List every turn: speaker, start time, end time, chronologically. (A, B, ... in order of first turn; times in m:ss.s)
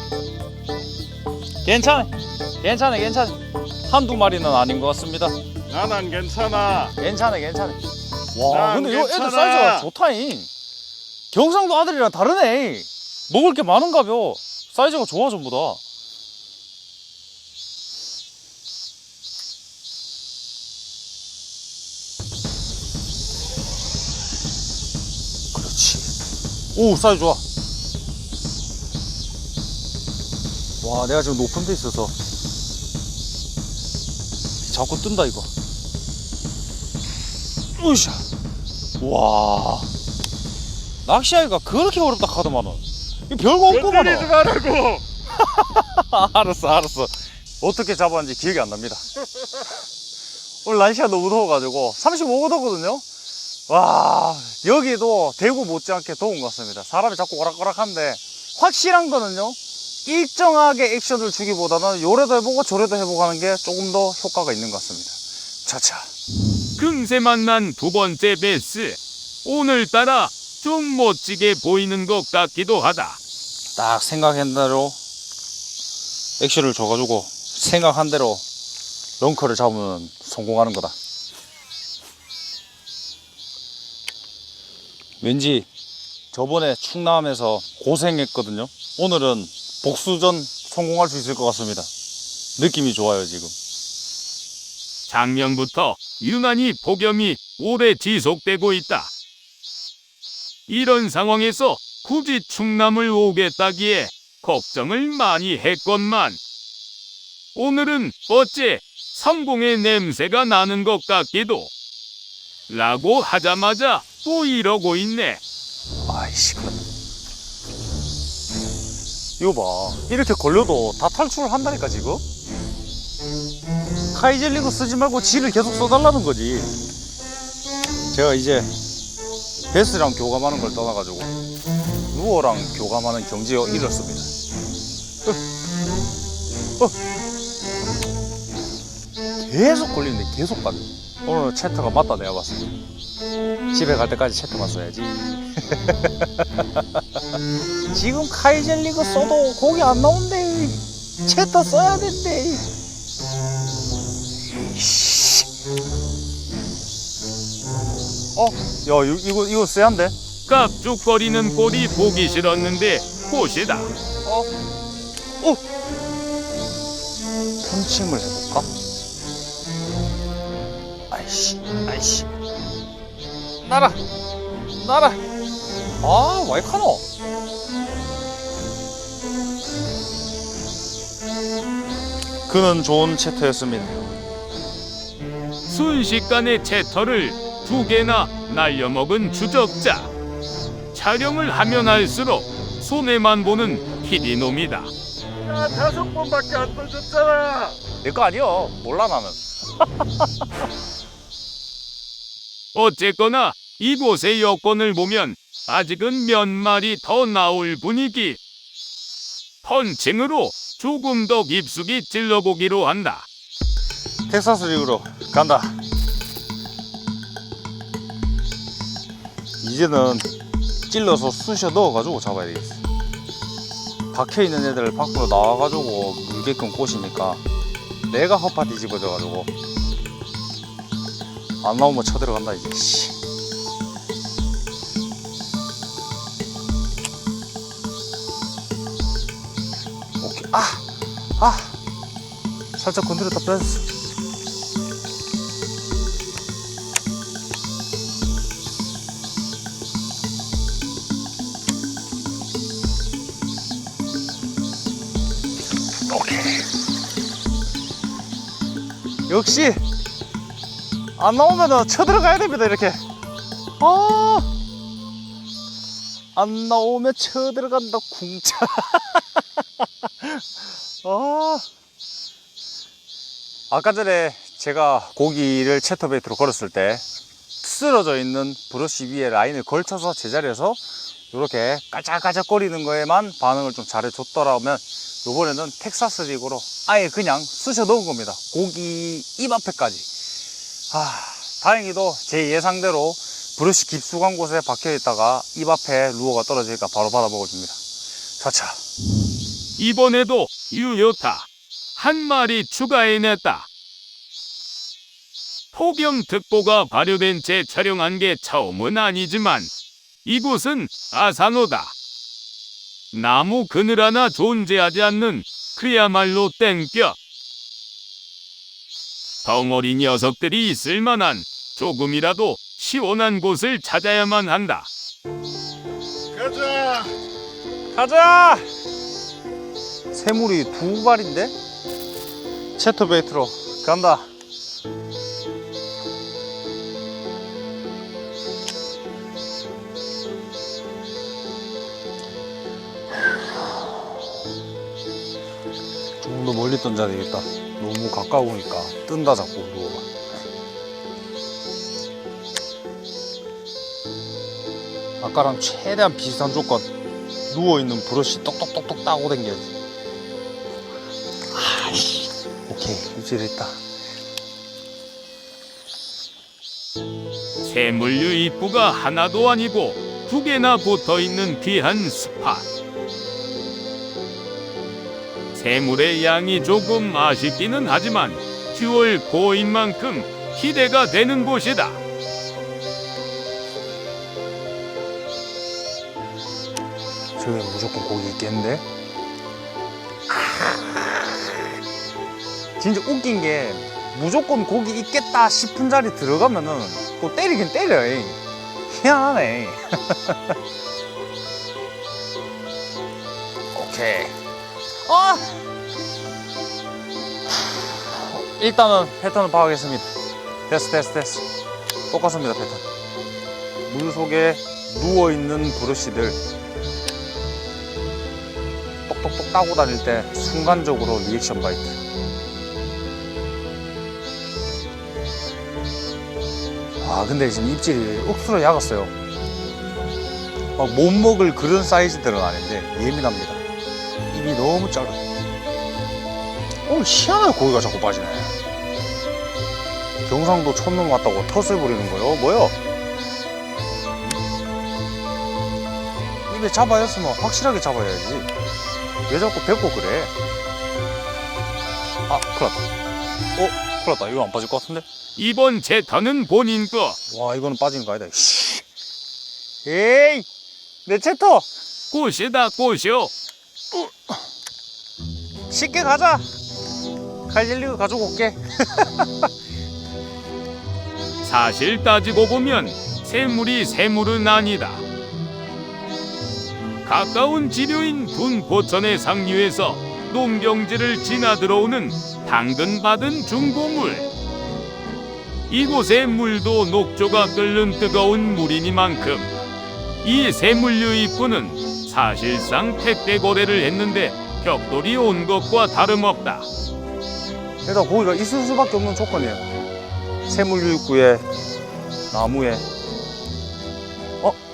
0:01.6-0:05.4 A
0:05.7-0:07.0 B
0:07.0-0:07.8 A
0:08.3-0:10.5 A
0:08.5-0:09.9 B
0:11.3-0:15.8 A
0:25.5-0:26.1 A
0:26.7-0:27.4 A
0:30.8-0:32.1 A
0:34.7-0:35.5 A
0:37.8-0:38.2 A
0:39.0-0:39.9 A
0:41.1-0:44.4 A
0:43.7-0:45.1 B
0:45.4-0:49.0 A
0:50.6-0:53.0 A
0:53.7-1:06.1 A
1:06.8-1:13.2 C
1:13.8-1:15.0 A
1:16.4-1:18.4 A
1:19.2-1:20.9 A
1:25.2-1:25.7 A
1:26.3-1:31.9 A
1:32.6-1:33.6 A
1:35.1-1:39.1 C
1:40.7-1:46.4 C
1:47.6-1:51.7 C
1:52.7-1:55.4 C
1:56.0-1:56.8 A
1:59.4-2:02.2 A
2:04.1-2:06.8 A
2:08.1-2:08.7 A
2:09.7-2:11.3 A
2:12.1-2:14.3 A
2:19.4-2:22.7 A
2:23.7-2:27.0 A
2:27.9-2:32.7 A
2:34.5-2:35.5 A
2:38.4-2:40.1 A
2:40.5-2:43.9 C
2:44.2-2:44.5 A
2:47.6-2:48.7 A
2:51.1-2:52.3 A
2:53.6-2:54.0 A
2:54.8-2:55.2 A
2:56.0-2:57.0 A
3:02.5-3:04.0 A
3:05.6-3:10.1 C
3:10.9-3:14.9 C
3:15.4-3:17.8 B
3:18.0-3:20.0 A
3:22.7-3:28.4 C
3:29.6-3:33.3 C
3:34.3-3:35.8 A
3:39.6-3:40.3 A
3:40.9-3:42.8 A
3:44.1-3:47.4 A
3:48.1-3:49.5 A
3:51.6-3:53.1 A
4:00.2-4:00.8 A
4:01.4-4:01.8 A
4:02.8-4:03.8 A
4:16.1-4:16.7 A
4:19.3-4:19.8 A
4:21.2-4:23.0 A
4:23.8-4:24.5 A
4:26.4-4:29.2 A
4:30.0-4:30.5 A
4:31.0-4:31.6 A
4:33.7-4:37.0 A
4:37.6-4:50.1 A
4:50.9-4:57.8 A
4:58.4-4:58.8 A
4:59.8-5:03.7 C
5:05.7-5:09.7 C
5:10.2-5:11.9 C
5:13.1-5:17.2 C
5:19.4-5:24.9 C
5:26.3-5:27.1 B
5:27.9-5:28.6 A
5:30.1-5:31.5 A
5:32.8-5:34.3 A
5:46.2-5:50.1 A
5:55.2-5:56.9 A
5:57.5-5:59.7 A
6:01.5-6:03.8 A
6:07.6-6:12.6 C
6:15.5-6:22.0 C
6:27.4-6:28.8 A
6:30.3-6:31.6 A
6:32.8-6:38.4 A
6:38.9-6:40.6 A
6:43.7-6:44.3 A
6:45.0-6:45.6 A
6:47.6-6:50.1 A
6:50.7-6:51.5 A
6:52.1-6:52.8 A
6:53.9-6:56.4 A
6:59.1-7:02.0 A
7:07.0-7:09.1 A
7:10.8-7:13.6 A
7:14.3-7:15.2 A
7:16.9-7:18.6 A
7:20.2-7:22.8 A
7:26.5-7:28.5 A
7:29.3-7:30.3 A
7:32.3-7:32.9 A
7:33.6-7:35.0 A
7:35.4-7:37.2 C
7:37.3-7:38.8 A
7:39.8-7:40.5 A
7:41.0-7:41.6 A
7:42.1-7:43.3 C
7:45.7-7:46.5 A
7:47.5-7:49.5 A
7:51.4-7:55.0 C
7:57.0-8:04.3 C
8:05.7-8:09.5 C
8:10.2-8:16.7 C
8:17.9-8:19.7 A
8:20.5-8:21.5 A
8:22.3-8:22.9 A